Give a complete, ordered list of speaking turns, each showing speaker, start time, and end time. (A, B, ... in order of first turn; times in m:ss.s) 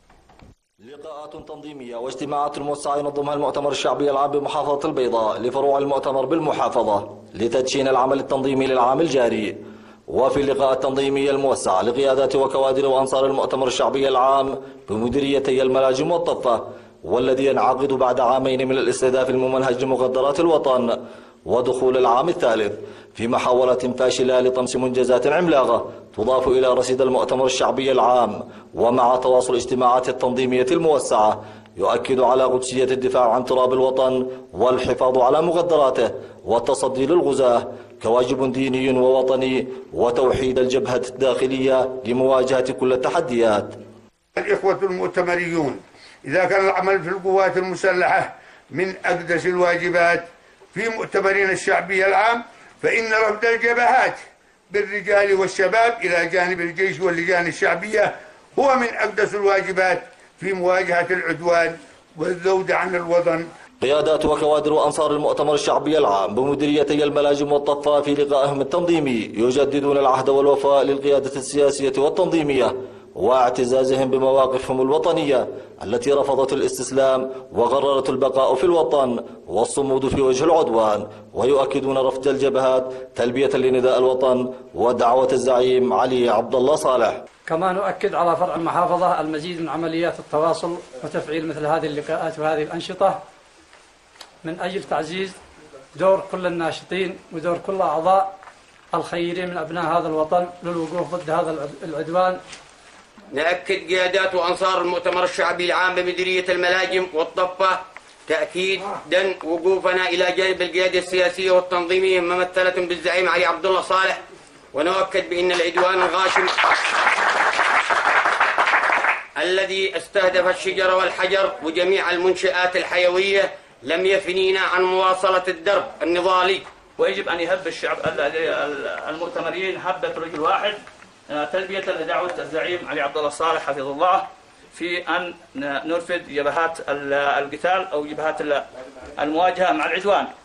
0:00.8-0:09.6 A
0:10.1-0:21.0 A
0:21.5-0:43.8 A
0:44.4-1:03.5 B
1:03.8-1:27.2 A
1:27.5-1:33.2 C
1:34.4-1:35.4 C
1:35.9-1:38.3 C
1:38.9-1:42.4 C
1:43.3-1:54.2 D
1:54.7-1:56.5 D
1:59.4-2:06.6 D
2:07.0-2:18.6 E
2:19.2-2:20.3 E